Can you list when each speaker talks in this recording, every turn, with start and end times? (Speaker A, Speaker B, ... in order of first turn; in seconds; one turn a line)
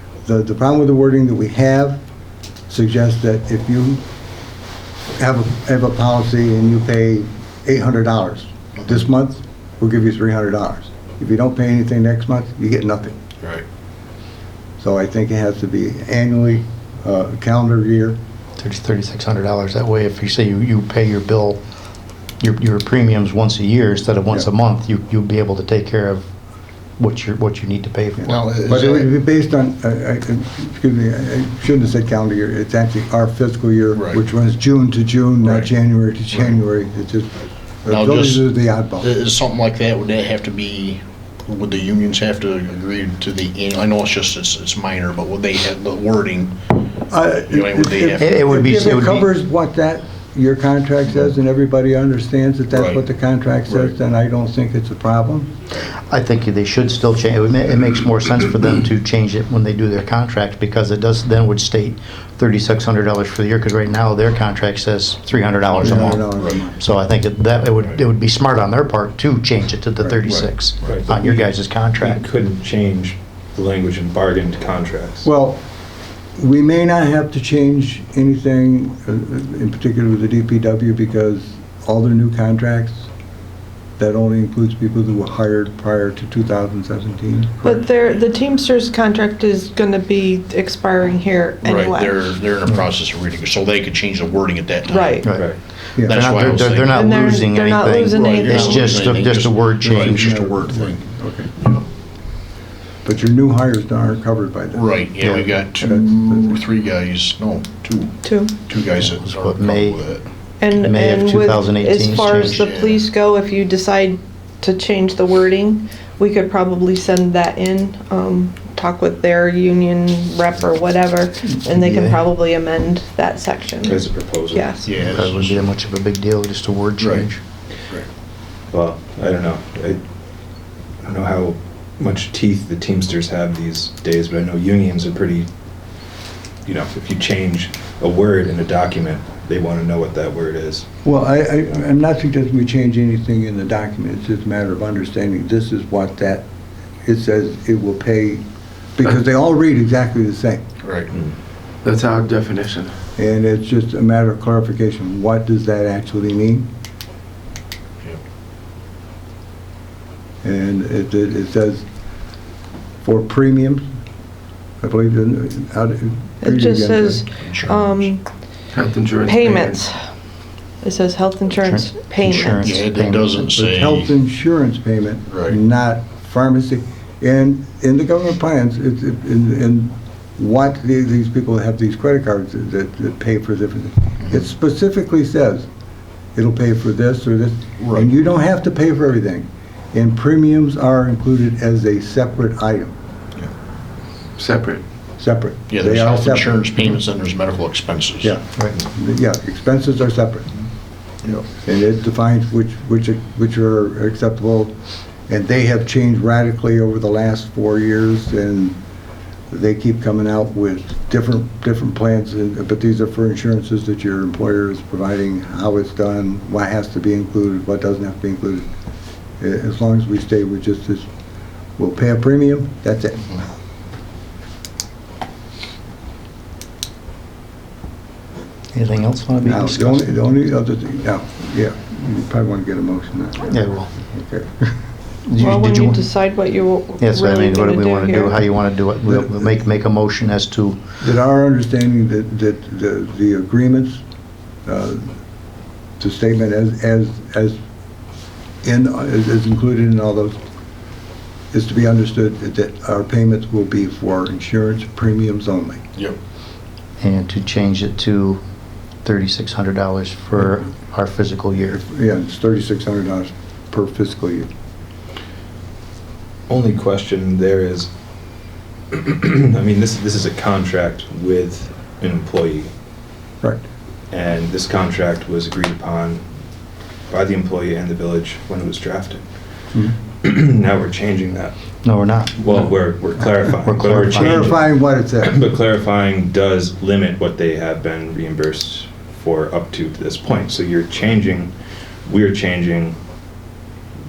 Speaker A: 0.2-2.0
Speaker A: 2.7-4.0
Speaker A: 5.2-13.2
Speaker A: 14.8-18.2
Speaker B: 18.6-21.6
Speaker B: 22.4-26.2
Speaker B: 27.0-28.3
Speaker A: 28.2-37.3
Speaker C: 28.2-29.1
Speaker C: 33.9-34.2
Speaker C: 35.4-35.7
Speaker A: 37.8-39.1
Speaker C: 37.9-46.7
Speaker A: 47.1-55.5
Speaker C: 47.5-48.7
Speaker B: 48.2-49.3
Speaker C: 52.7-53.0
Speaker C: 53.7-53.9
Speaker B: 56.1-72.2
Speaker C: 65.8-66.6
Speaker A: 65.8-66.8
Speaker C: 70.2-71.0
Speaker D: 70.8-75.3
Speaker A: 75.2-75.6
Speaker A: 76.4-83.1
Speaker A: 84.0-87.8
Speaker E: 87.6-92.3
Speaker C: 91.6-95.2
Speaker E: 94.9-95.5
Speaker B: 95.2-100.5
Speaker D: 95.3-95.6
Speaker A: 96.0-96.2
Speaker C: 96.0-97.0
Speaker E: 96.9-99.0
Speaker C: 98.1-101.0
Speaker A: 99.9-101.5
Speaker C: 101.6-101.8
Speaker A: 103.0-105.0
Speaker C: 104.7-110.2
Speaker A: 105.8-106.6
Speaker E: 108.2-108.5
Speaker B: 108.9-110.0
Speaker E: 110.6-125.0
Speaker B: 110.7-112.6
Speaker C: 112.5-113.0
Speaker B: 121.7-122.2
Speaker D: 123.8-124.7
Speaker C: 124.8-125.7
Speaker B: 125.0-127.4
Speaker C: 127.0-127.3
Speaker D: 128.7-130.0
Speaker D: 131.0-135.5
Speaker D: 136.6-140.8
Speaker A: 141.0-146.4
Speaker A: 147.0-148.4
Speaker A: 148.9-150.6
Speaker C: 150.8-151.1
Speaker F: 151.8-152.9
Speaker A: 153.2-156.7
Speaker A: 160.4-161.8
Speaker A: 163.0-163.8
Speaker A: 164.8-167.2
Speaker E: 166.4-168.2
Speaker C: 167.4-168.1
Speaker F: 168.7-169.8
Speaker E: 169.1-170.0
Speaker E: 170.8-172.6
Speaker B: 171.6-173.4
Speaker C: 172.3-174.1
Speaker A: 173.5-185.7
Speaker C: 175.3-175.6
Speaker A: 186.3-192.9
Speaker C: 187.8-188.1
Speaker F: 194.4-194.8
Speaker A: 195.2-196.6
Speaker C: 195.7-198.3
Speaker A: 198.2-200.5
Speaker A: 201.5-204.7
Speaker A: 205.3-208.8
Speaker A: 209.5-218.7
Speaker A: 219.4-221.1
Speaker A: 221.8-223.4
Speaker B: 228.7-230.2
Speaker A: 229.4-234.7
Speaker B: 233.5-233.9
Speaker B: 235.3-236.1
Speaker E: 235.3-238.4
Speaker B: 237.0-240.8
Speaker A: 239.1-239.6
Speaker A: 241.0-244.0
Speaker A: 244.7-245.1
Speaker A: 246.0-247.6
Speaker A: 248.6-250.3
Speaker A: 251.5-255.8
Speaker B: 257.0-258.4
Speaker B: 259.0-261.8
Speaker A: 261.7-264.5
Speaker D: 266.5-267.9
Speaker D: 268.9-272.7
Speaker D: 274.1-276.2
Speaker D: 277.1-279.2
Speaker D: 280.2-281.5
Speaker B: 281.8-282.3
Speaker D: 282.4-291.5
Speaker B: 283.6-284.5
Speaker A: 284.0-285.3
Speaker D: 292.1-292.9